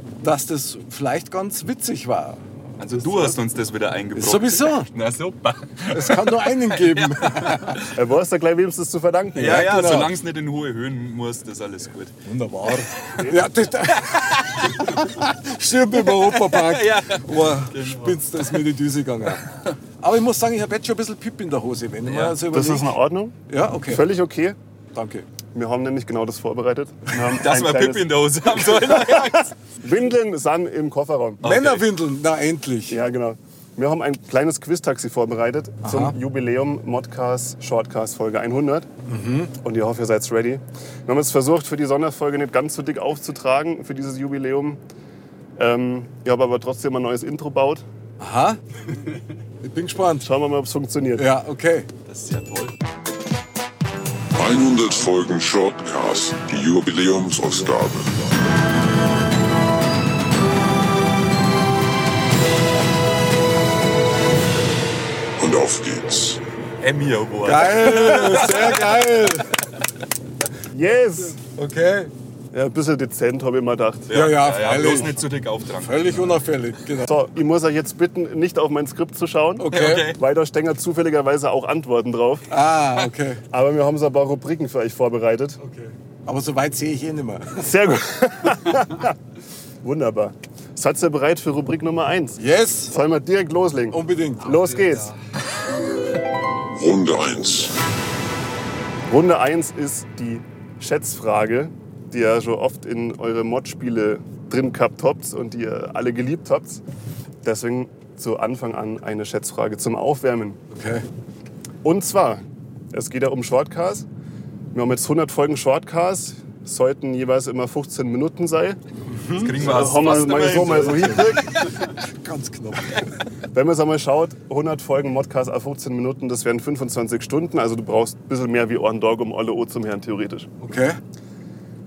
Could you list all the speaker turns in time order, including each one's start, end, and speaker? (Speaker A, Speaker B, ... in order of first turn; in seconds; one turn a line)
Speaker A: 0.2-2.4
Speaker B: 2.8-7.8
Speaker A: 4.2-4.9
Speaker A: 5.9-7.8
Speaker C: 7.9-9.8
Speaker A: 9.4-10.2
Speaker B: 9.4-12.1
Speaker A: 12.2-19.5
Speaker C: 13.1-13.5
Speaker B: 16.2-18.6
Speaker A: 20.0-22.9
Speaker B: 22.1-22.4
Speaker C: 22.5-24.6
Speaker A: 23.5-24.0
Speaker A: 24.9-25.2
Speaker C: 25.5-29.2
Speaker B: 27.3-29.5
Speaker C: 29.8-31.4
Speaker B: 31.4-31.8
Speaker A: 31.4-33.0
Speaker C: 32.9-38.9
Speaker A: 35.8-36.1
Speaker A: 39.1-39.5
Speaker C: 39.6-44.8
Speaker C: 45.6-47.8
Speaker A: 48.2-48.6
Speaker A: 49.6-50.3
Speaker C: 50.2-51.2
Speaker A: 51.2-51.9
Speaker B: 52.1-52.8
Speaker D: 54.4-58.1
Speaker D: 65.4-66.4
Speaker B: 66.8-69.0
Speaker A: 67.4-69.5
Speaker C: 70.7-71.4
Speaker A: 71.5-72.1
Speaker C: 72.5-74.2
Speaker B: 74.1-76.4
Speaker A: 74.1-77.1
Speaker C: 77.0-82.5
Speaker A: 79.6-80.1
Speaker B: 79.7-80.2
Speaker A: 82.5-83.4
Speaker C: 83.5-85.6
Speaker A: 85.6-87.7
Speaker C: 87.6-89.1
Speaker C: 89.8-95.1
Speaker A: 92.4-92.9
Speaker A: 93.9-94.5
Speaker B: 94.4-95.1
Speaker D: 96.7-97.7
Speaker C: 99.1-106.8
Speaker C: 107.4-110.6
Speaker A: 110.7-111.1
Speaker C: 111.8-114.1
Speaker C: 114.7-118.8
Speaker A: 119.1-119.8
Speaker B: 119.4-121.3
Speaker C: 119.5-121.5
Speaker A: 120.6-121.3
Speaker A: 122.2-123.0
Speaker C: 123.5-130.5
Speaker A: 130.6-131.0